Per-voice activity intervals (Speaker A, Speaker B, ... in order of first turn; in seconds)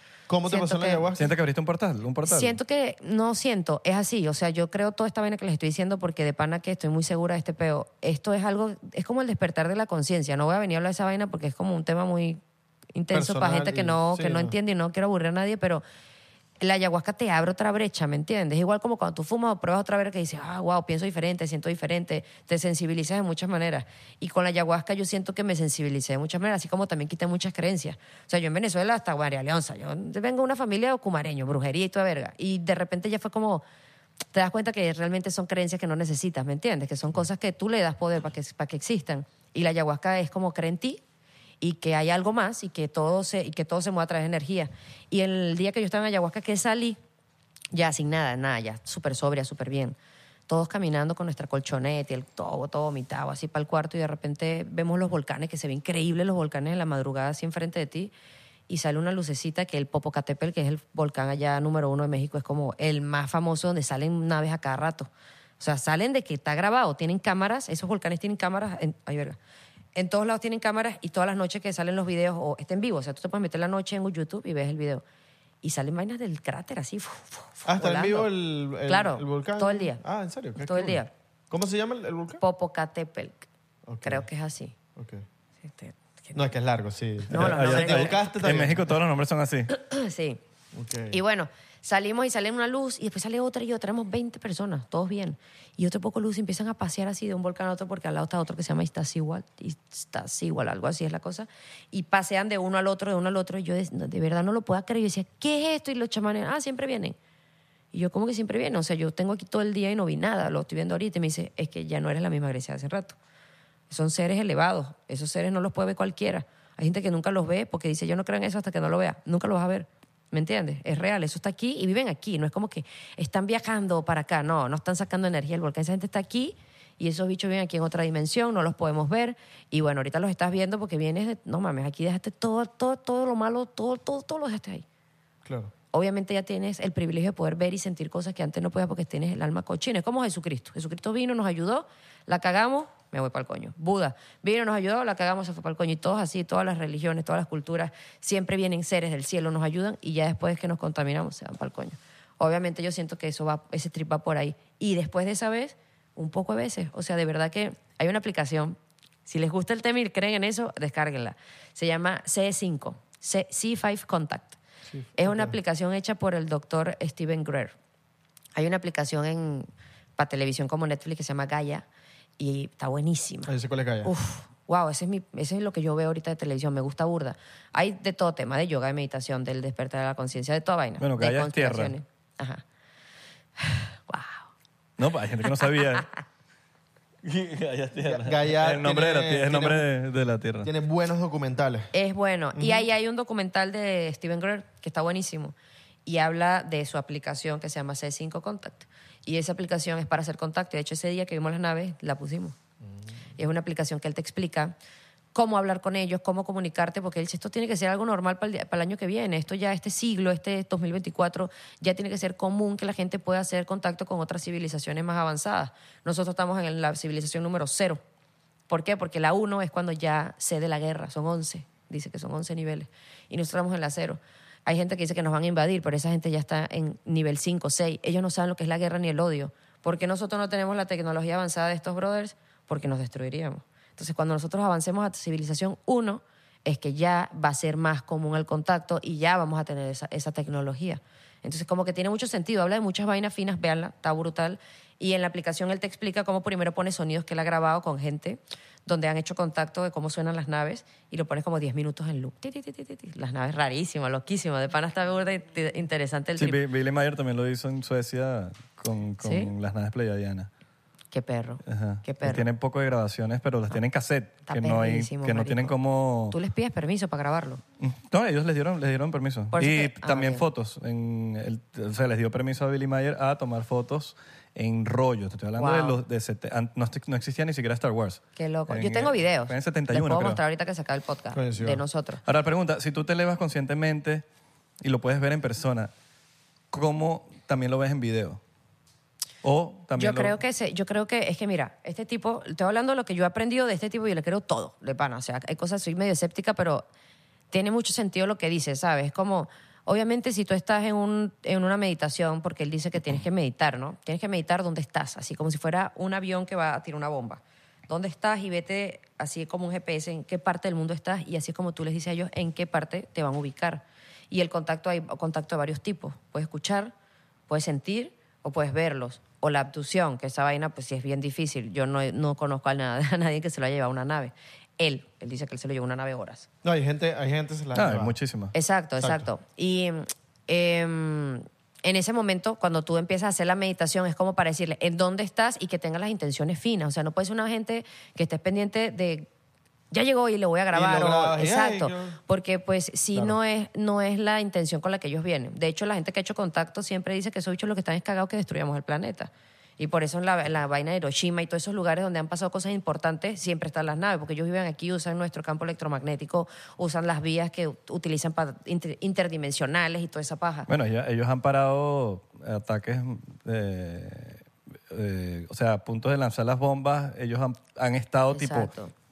Speaker A: 0.3-1.3, 13.1-14.5, 77.7-82.4, 83.8-84.3, 84.9-85.2, 86.3-89.0, 90.7-91.2, 135.4-135.7, 164.9-165.5, 173.5-174.1, 188.0-189.8, 190.6-191.9, 192.5-192.8, 202.8-203.2, 281.3-281.8, 326.6-328.1, 329.0-329.3, 340.7-342.2
Speaker B: 0.5-1.0, 2.2-12.4, 12.9-15.8, 16.6-33.6, 34.3-41.0, 41.6-47.0, 47.7-50.0, 50.5-58.1, 58.7-69.4, 69.9-75.0, 75.6-78.3, 78.8-80.0, 80.6-81.1, 82.4-83.5, 84.0-84.7, 85.6-86.5, 87.3-88.2, 89.7-90.4, 91.1-107.2, 107.9-113.2, 113.9-134.8, 135.9-164.6, 165.2-167.7, 168.6-171.8, 172.4-173.5, 174.0-182.6, 183.6-184.5, 185.6-186.0, 191.9-195.5, 196.1-202.6, 203.4-204.7, 205.3-218.0, 218.7-256.6, 259.2-259.5, 261.1-262.4, 264.5-265.7, 266.3-267.6, 269.5-270.4, 275.6-276.0, 278.4-282.2, 289.9-296.9, 297.5-316.9, 317.5-326.5, 328.5-339.3, 339.9-360.7, 368.3-368.9
Speaker C: 1.2-2.6, 87.3-89.7, 181.0-181.9, 185.0-186.1, 187.2-190.7, 256.4-260.5, 261.6-266.4, 267.8-280.4, 282.2-284.2, 284.8-285.9, 286.7-288.4, 289.4-290.4, 327.7-328.5, 360.7-368.7